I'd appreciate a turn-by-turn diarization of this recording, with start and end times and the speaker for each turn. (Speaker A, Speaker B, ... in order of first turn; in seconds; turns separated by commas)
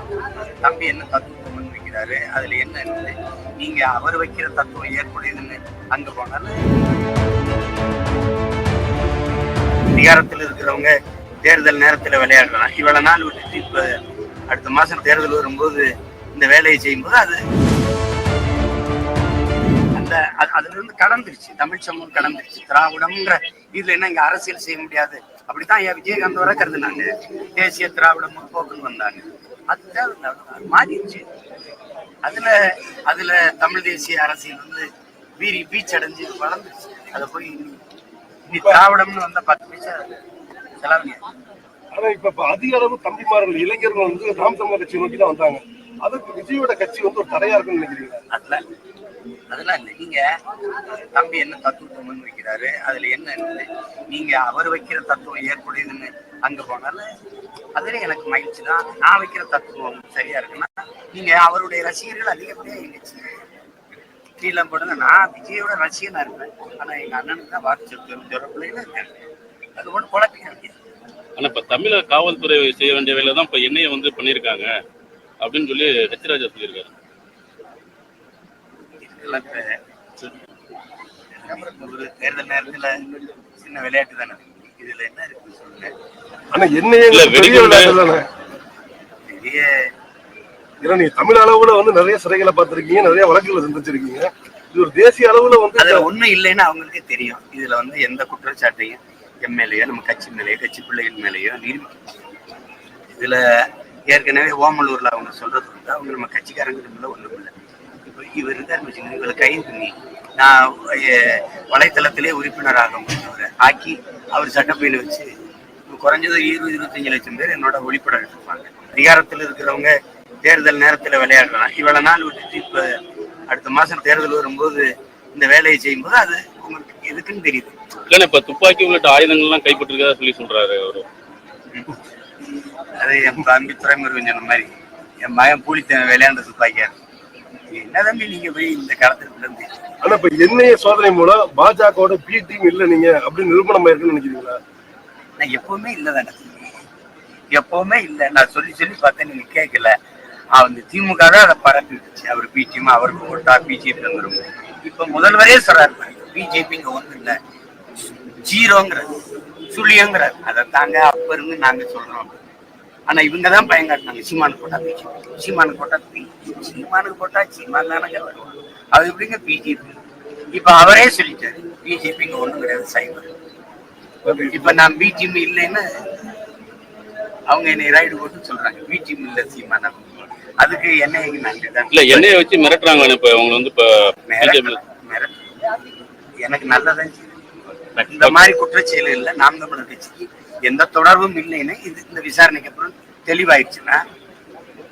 Speaker A: 0.6-6.6, Speaker A: 9.9-14.0, Speaker A: 14.5-17.4, Speaker A: 19.9-31.2, Speaker A: 32.2-34.9, Speaker A: 35.4-37.8, Speaker A: 38.5-40.1, Speaker A: 40.8-41.2, Speaker B: 41.9-48.2, Speaker A: 48.3-48.6, Speaker A: 49.5-50.2, Speaker A: 50.9-57.1, Speaker A: 57.8-63.4, Speaker A: 64.4-69.1, Speaker A: 69.8-70.8, Speaker C: 71.4-74.7, Speaker C: 75.4-76.9, Speaker A: 79.0-79.8, Speaker A: 81.4-82.9, Speaker A: 83.6-85.9, Speaker B: 86.5-88.3, Speaker C: 87.1-88.1, Speaker A: 89.3-89.9, Speaker B: 90.8-96.1, Speaker A: 95.8-102.1, Speaker A: 103.1-107.5, Speaker A: 108.0-115.3, Speaker A: 115.9-119.9, Speaker A: 120.5-123.0, Speaker A: 123.5-127.7, Speaker C: 128.1-131.1, Speaker A: 131.7-132.0, Speaker A: 133.0-137.0, Speaker A: 137.7-139.9, Speaker B: 140.0-144.6, Speaker A: 145.4-146.8, Speaker A: 147.5-149.9, Speaker A: 150.5-157.4, Speaker A: 158.4-159.1, Speaker A: 159.7-162.4, Speaker A: 163.1-170.0, Speaker A: 170.5-173.3, Speaker C: 174.3-174.6, Speaker A: 174.4-175.9, Speaker A: 177.5-182.3, Speaker C: 181.9-184.7, Speaker A: 184.3-185.5, Speaker A: 186.4-187.4, Speaker C: 187.9-188.4, Speaker A: 188.1-194.0